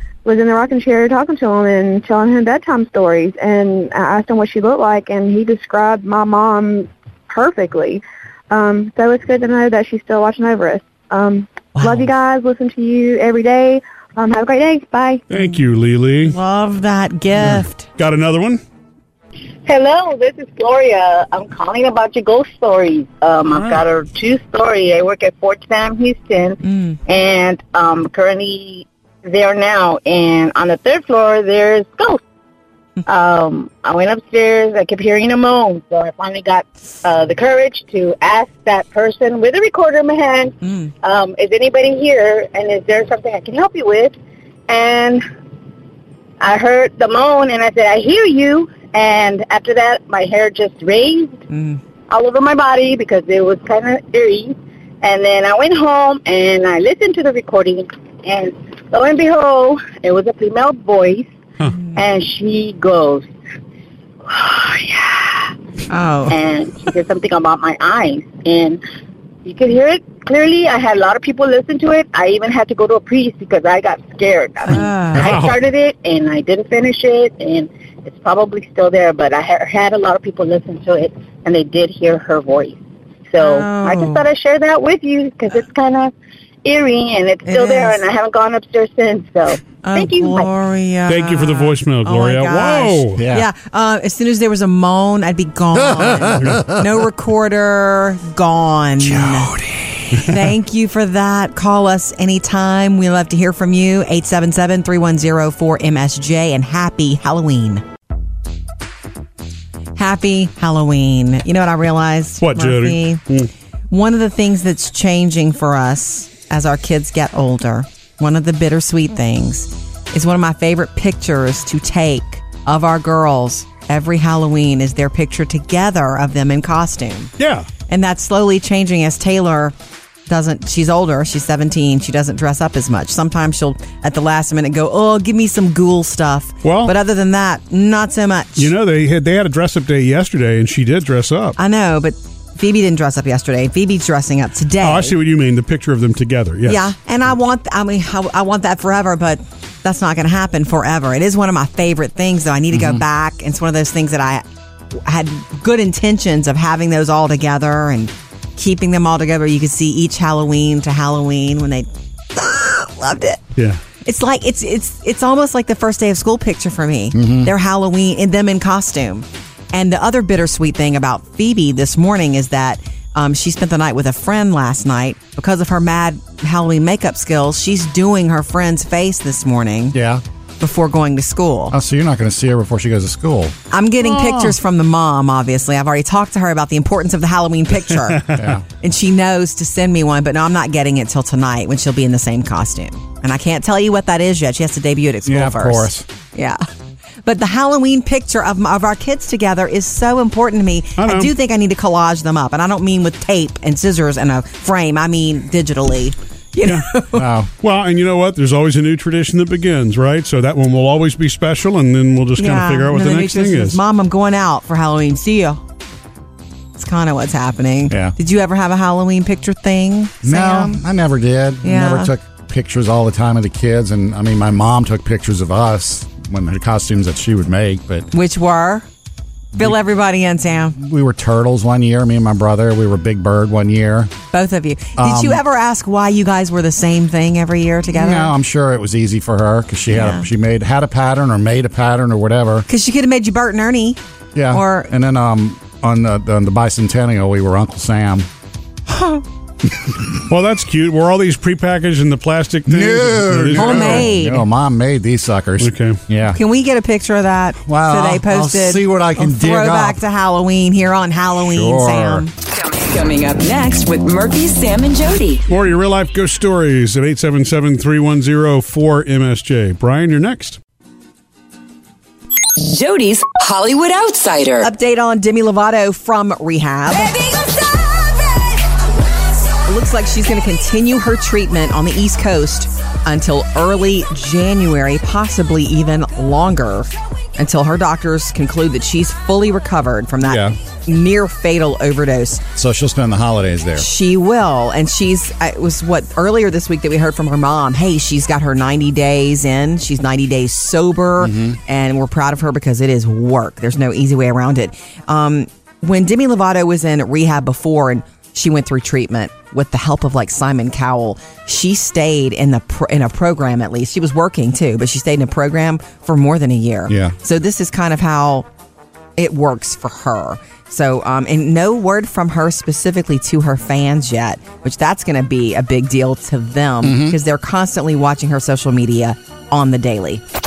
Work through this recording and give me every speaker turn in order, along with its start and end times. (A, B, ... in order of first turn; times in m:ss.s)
0:00.2-0:15.2 A
0:11.8-0:12.1 B
0:15.3-0:16.4 C
0:16.2-0:17.9 B
0:17.5-0:18.6 C
0:19.6-0:32.2 D
0:23.5-0:23.8 C
0:26.7-0:27.0 B
0:33.0-0:44.1 D
0:44.7-0:45.2 D
0:46.4-0:51.4 D
0:51.5-0:51.8 B
0:52.1-1:01.3 D
1:01.9-1:03.3 D
1:04.3-1:05.5 D
1:05.9-1:06.4 B
1:06.3-1:08.8 D
1:09.4-1:22.8 D
1:14.7-1:15.4 B
1:15.1-1:15.6 C
1:23.3-1:26.1 D
1:23.4-1:24.2 B
1:26.6-1:30.5 D
1:27.4-1:28.0 B
1:29.8-1:39.6 B
1:31.1-1:33.2 C
1:33.2-1:33.5 E
1:35.7-1:36.7 E
1:36.4-1:36.6 C
1:39.0-1:40.1 E
1:40.1-1:47.8 B
1:50.0-1:53.2 B
1:52.4-1:53.5 C
1:53.9-2:07.3 B
2:07.4-2:07.7 C
2:07.9-2:09.7 B
2:10.3-2:18.7 B
2:16.6-2:16.9 C
2:18.6-2:21.6 C
2:21.6-2:25.2 B
2:24.8-2:26.8 C
2:26.6-2:34.4 B
2:34.9-2:43.4 B
2:44.0-3:00.0 B
2:47.1-2:47.5 E
2:59.9-3:00.2 E
3:00.6-3:01.8 B
3:01.7-3:03.5 E
3:03.7-3:16.6 B
3:04.0-3:04.5 C
3:08.1-3:08.4 C
3:08.3-3:08.6 E
3:15.2-3:16.1 E
3:17.2-3:27.3 B
3:21.0-3:21.3 C
3:27.1-3:27.5 E
3:27.5-3:33.8 C
3:32.4-3:35.6 B
3:36.8-3:40.8 B
3:37.9-3:38.1 E
3:40.2-3:48.1 E
3:41.6-3:42.1 B
3:48.1-3:48.9 B
3:49.6-3:50.8 B
3:50.8-3:54.1 E
3:54.3-3:58.3 B
3:55.0-3:55.4 E
3:57.9-4:02.7 E
3:59.9-4:00.3 B
4:02.7-4:04.0 B
4:04.3-4:08.3 E
4:04.5-4:04.9 B
4:08.9-4:09.2 B
4:10.3-4:14.1 C
4:12.6-4:16.4 E
4:13.5-4:14.4 B
4:15.6-4:16.0 C
4:16.3-4:22.3 B
4:17.6-4:20.0 E
4:21.4-4:22.3 E
4:22.5-4:25.4 F
4:25.5-4:30.6 C
4:32.6-4:34.7 F
4:34.6-4:37.2 B
4:39.6-4:52.4 B
4:50.2-4:50.6 E
4:52.6-4:53.8 E
4:53.8-5:18.5 B
5:01.2-5:01.6 E
5:16.9-5:17.1 E
5:19.2-5:30.2 B
5:26.8-5:27.2 E